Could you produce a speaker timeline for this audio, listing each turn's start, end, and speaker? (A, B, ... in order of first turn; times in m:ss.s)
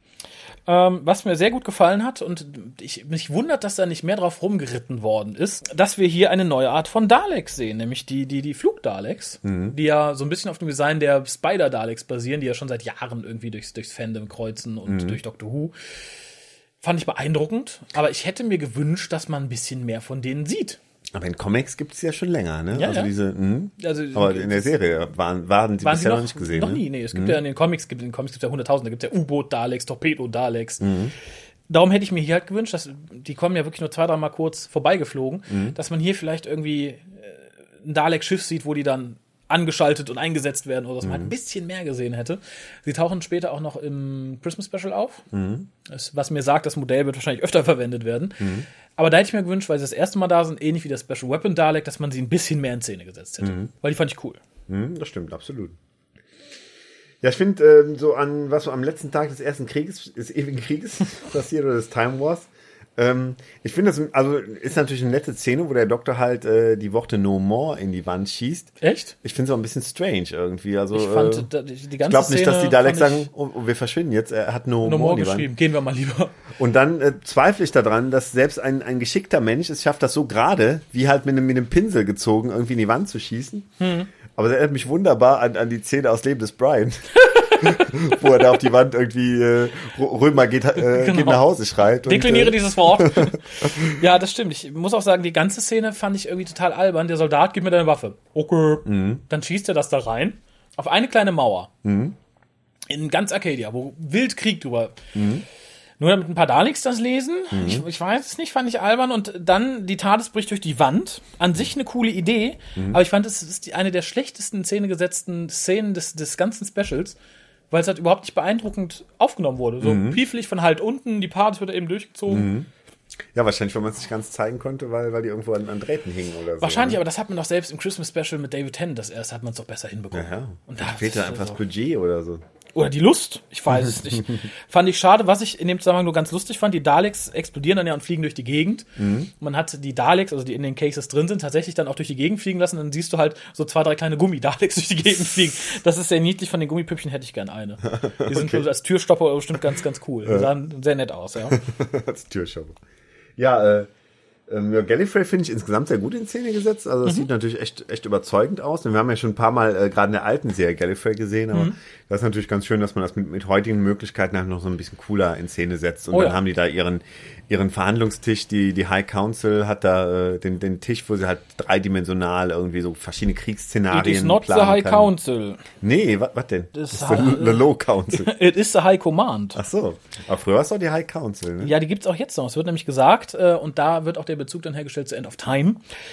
0:00.7-0:15.7 A
0:09.4-0:09.7 B
0:14.9-0:15.2 B
0:16.8-0:20.8 A
0:21.1-0:27.4 B
0:22.7-0:23.1 A
0:23.8-0:24.7 A
0:25.8-0:31.0 A
0:30.8-0:31.1 B
0:31.7-0:45.3 A
0:35.5-0:35.8 B
0:41.0-0:41.3 B
0:45.3-0:45.7 B
0:45.9-0:54.4 A
0:48.4-0:48.6 B
0:53.4-0:53.7 B
0:54.7-0:55.8 B
0:57.2-1:08.7 B
1:08.8-1:09.1 A
1:09.2-1:11.5 B
1:10.9-1:13.3 A
1:12.0-1:15.5 B
1:14.8-1:16.3 A
1:16.6-1:23.7 B
1:23.8-1:24.1 A
1:24.3-1:34.0 B
1:27.2-1:28.1 A
1:30.8-1:41.7 A
1:38.8-1:39.2 B
1:41.8-1:42.2 B
1:42.9-1:45.0 A
1:45.1-1:45.4 B
1:46.0-1:57.2 A
1:47.5-1:47.8 B
1:57.7-2:02.5 A
1:59.8-2:00.2 B
2:02.3-2:02.7 B
2:03.3-2:07.0 B
2:06.6-2:11.6 A
2:10.1-2:12.4 B
2:12.7-2:31.6 A
2:19.0-2:19.3 B
2:27.9-2:28.6 B
2:31.5-2:32.8 B
2:33.4-2:33.9 B
2:34.5-2:55.1 B
2:46.1-2:46.4 A
2:53.9-2:55.6 A
2:55.8-2:58.3 B
2:56.7-2:59.6 A
2:59.6-3:01.7 B
3:01.6-3:05.8 A